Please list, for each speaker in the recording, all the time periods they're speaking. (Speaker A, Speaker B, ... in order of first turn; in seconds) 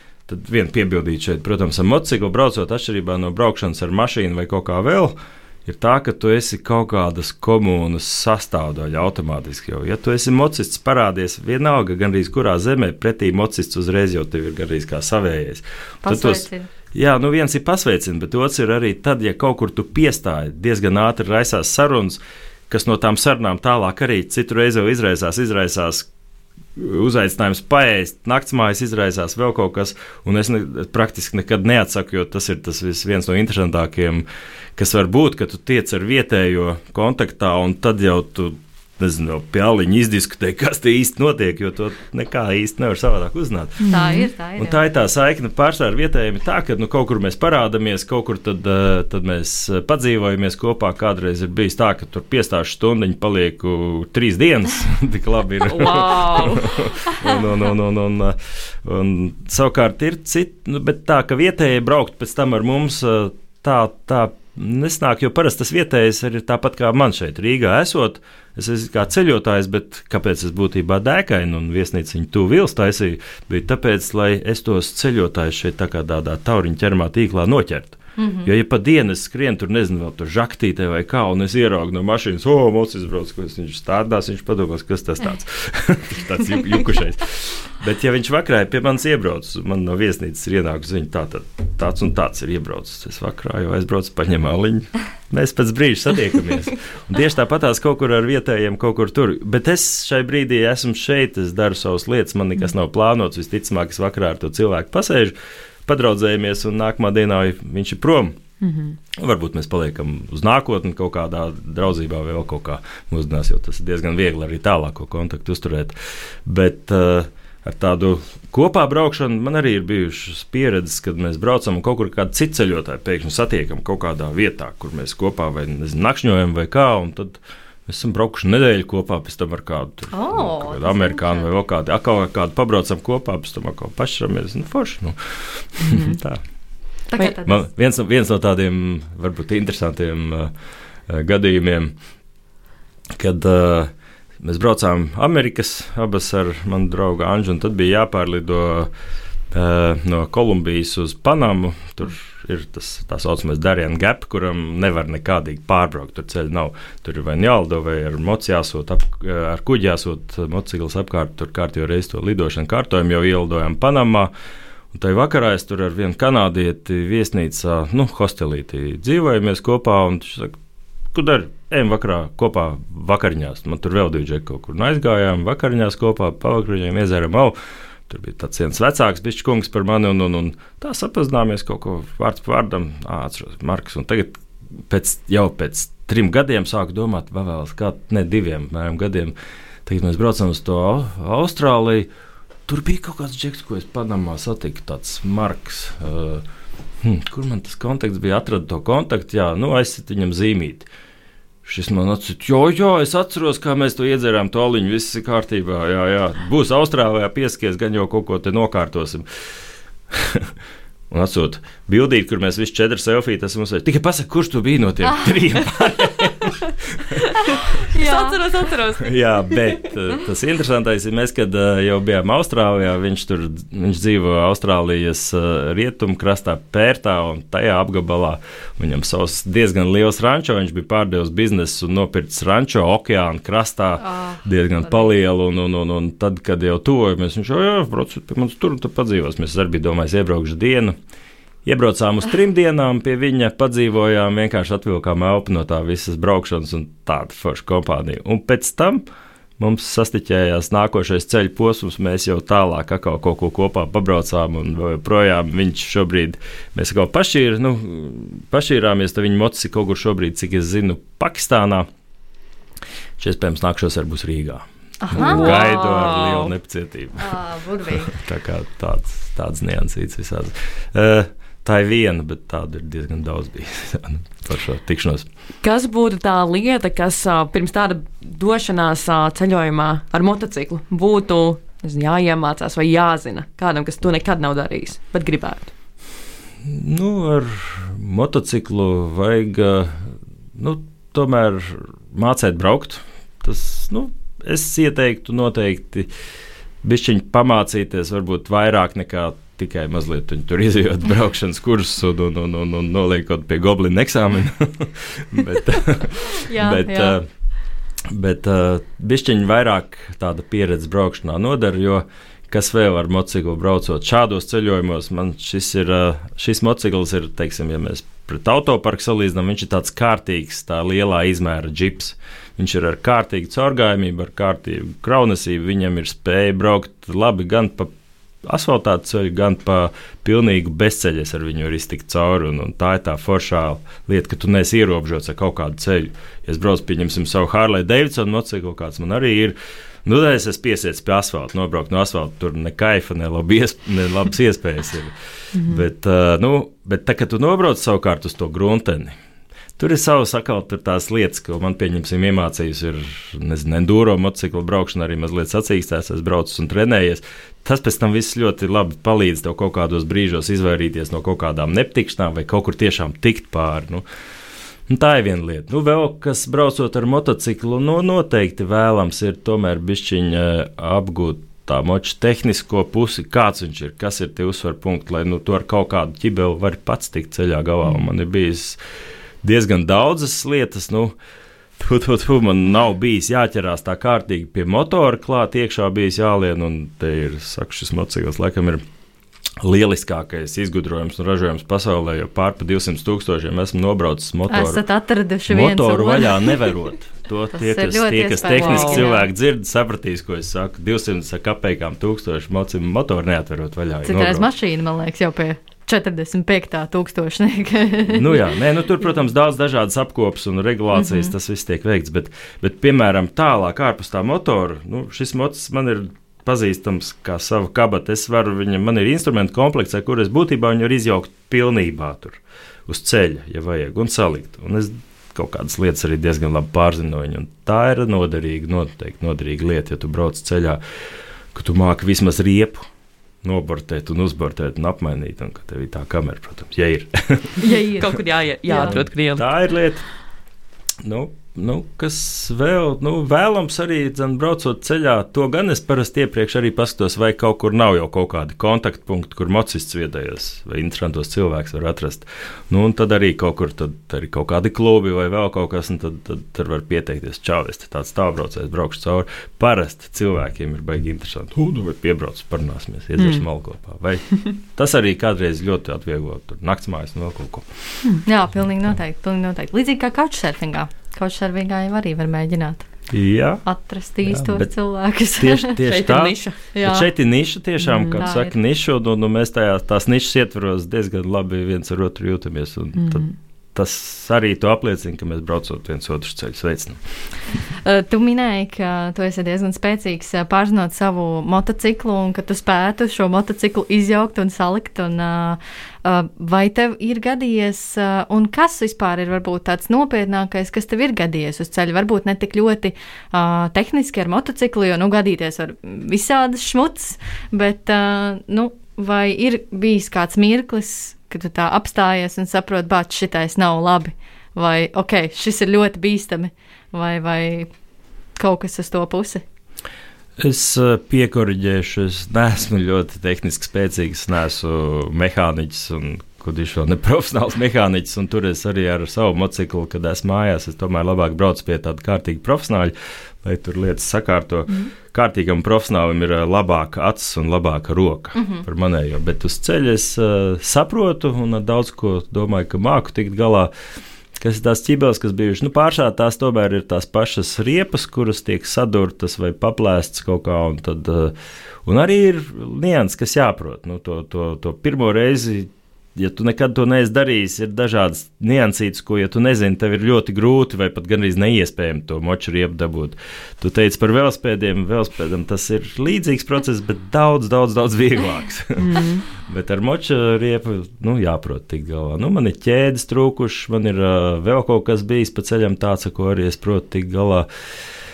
Speaker A: 0.3-26.1, 26.8-34.2, 34.8-105.3, 105.9-108.4, 109.1-136.4, 137.2-140.5, 141.1-141.9, 143.2-148.9, 149.5-164.3, 164.9-170.6, 171.1-177.6, 178.1-189.3, 189.8-192.1, 192.7-196.4, 197.0-200.9, 201.7-209.2, 210.1-210.5, 211.1-217.3, 219.0-240.9, 241.7-249.0, 249.6-261.9, 263.2-275.3, 286.6-296.1, 296.8-307.2, 308.1-327.9, 328.4-349.2, 349.8-364.0, 364.9-378.8, 379.4-381.2, 381.8-388.8, 389.6-394.9, 395.5-404.5, 408.1-430.8, 431.5-432.9, 433.4-437.6, 438.8-440.1, 441.0-468.0, 473.1-473.6, 474.2-474.7, 475.4-487.0, 520.4-543.7, 544.4-551.3, 551.9-577.5
Speaker B: 16.0-16.7, 43.9-44.8, 78.2-78.5, 130.1-131.4, 137.1-137.7, 217.9-218.4, 234.0-235.1, 265.0-265.6, 267.2-268.1, 306.3-307.2, 394.5-396.6, 397.5-399.3, 404.1-408.4, 437.6-438.1, 438.7-438.9, 468.2-472.9, 473.6-475.8, 476.7-477.1, 478.2-478.5, 487.8-517.7, 518.4-519.4, 538.4-538.6
Speaker C: 43.8-44.3, 55.6-56.8, 108.6-109.0, 135.8-136.2, 217.5-219.9, 265.1-266.5, 275.6-285.7, 345.6-345.8, 398.5-399.1, 438.0-439.5, 463.2-463.4, 475.8-476.6, 477.8-478.3, 483.0-483.3, 568.8-569.2